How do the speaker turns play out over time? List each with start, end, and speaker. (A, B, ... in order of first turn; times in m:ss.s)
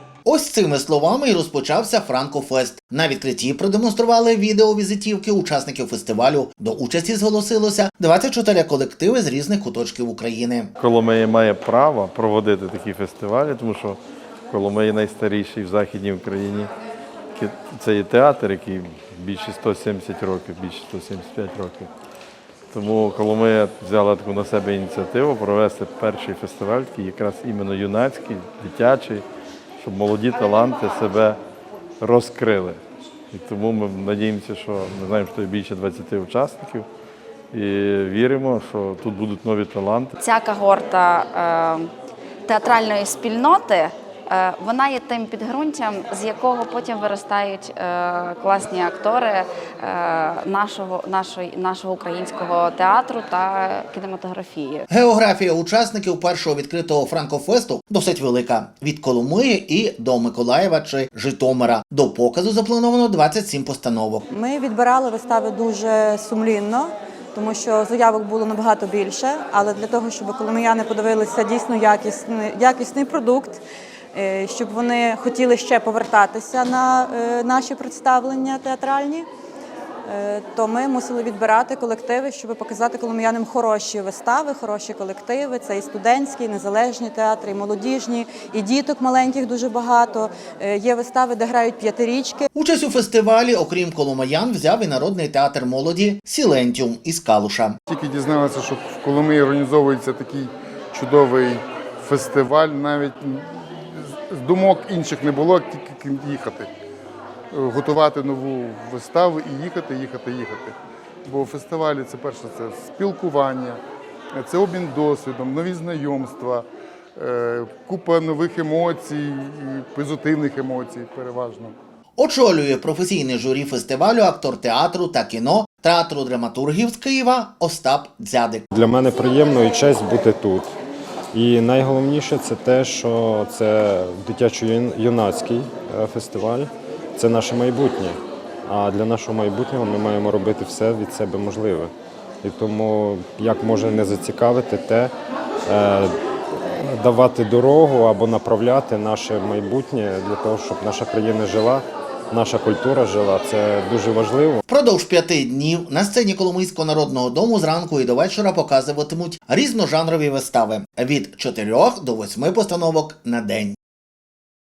0:00.2-0:10.7 A
0:10.8-0:16.7 B
0:17.4-0:21.9 B
0:22.7-0:29.2 B
0:29.8-0:31.4 B
0:32.0-0:32.8 B
0:33.3-0:36.8 B
0:37.5-0:40.1 B
0:40.2-0:41.9 C
0:42.5-0:54.8 C
0:54.9-1:04.2 A
1:04.3-1:13.6 D
1:14.1-1:19.2 D
1:20.1-1:32.5 D
1:32.5-1:37.8 A
1:37.9-1:46.7 E
1:47.5-1:53.8 E
1:54.3-2:01.8 E
2:02.2-2:08.6 A
2:08.7-2:10.7 F
2:11.3-2:21.9 F
2:22.4-2:25.1 F
2:25.7-2:34.6 F
2:34.7-2:43.8 A